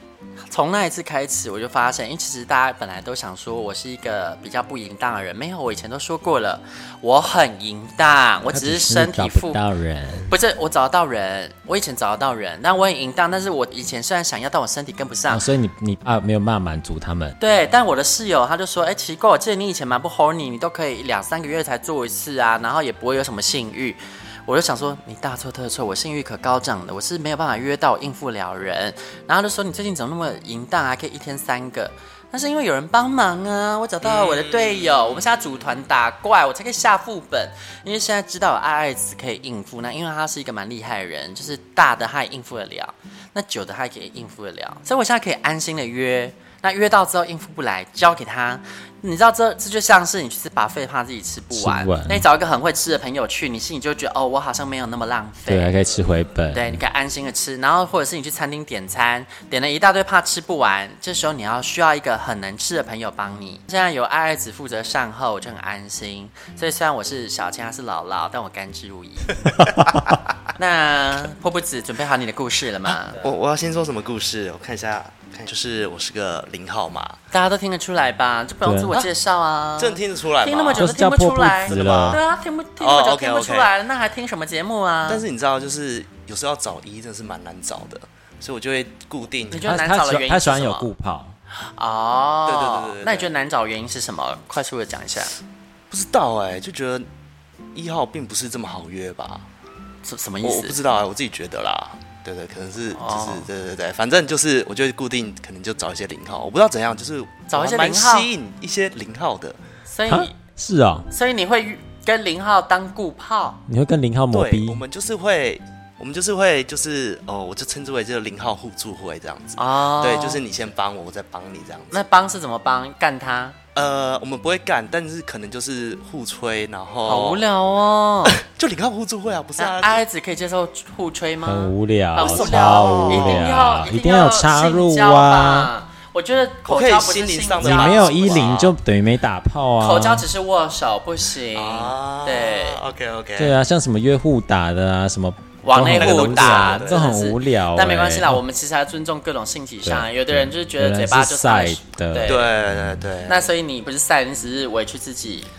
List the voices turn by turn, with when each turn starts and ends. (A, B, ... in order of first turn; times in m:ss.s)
0:00.5-0:09.6 A
0:08.5-0:10.3 B
0:10.3-0:15.4 A
0:15.3-0:17.4 B
0:17.4-0:55.8 A
0:34.0-0:35.3 C
0:51.5-0:52.3 B
0:55.5-0:56.8 B
0:56.5-1:09.4 A
1:10.6-1:13.2 A
1:13.2-1:17.2 C
1:17.3-1:25.2 A
1:18.6-1:18.9 B
1:19.8-1:20.9 C
1:20.8-1:22.2 B
1:21.7-1:22.2 C
1:22.8-1:23.7 C
1:25.1-1:29.7 C
1:29.5-1:30.9 A
1:29.6-1:31.4 B
1:31.7-1:35.3 A
1:32.5-1:33.3 C
1:35.9-1:37.1 C
1:37.7-1:39.4 C
1:40.0-1:40.8 A
1:40.4-1:49.6 C
1:43.0-1:43.5 A
1:47.5-1:48.3 A
1:49.9-1:50.3 A
1:50.1-1:51.1 B
1:51.1-1:53.6 A
1:53.7-1:54.8 B
1:54.3-2:02.1 C
1:59.6-2:00.4 A
2:01.9-2:03.6 A
2:03.8-2:07.4 C
2:07.1-2:08.4 A
2:08.3-2:10.0 C
2:09.6-2:18.7 A
2:11.5-2:15.7 B
2:12.2-2:13.5 C
2:16.7-2:18.7 C
2:17.6-2:20.3 B
2:19.8-2:22.8 A
2:21.5-2:23.6 C
2:23.4-2:28.4 B
2:25.6-2:32.5 A
2:26.0-2:27.1 C
2:29.8-2:33.0 B
2:32.2-2:33.5 C
2:33.3-2:35.5 A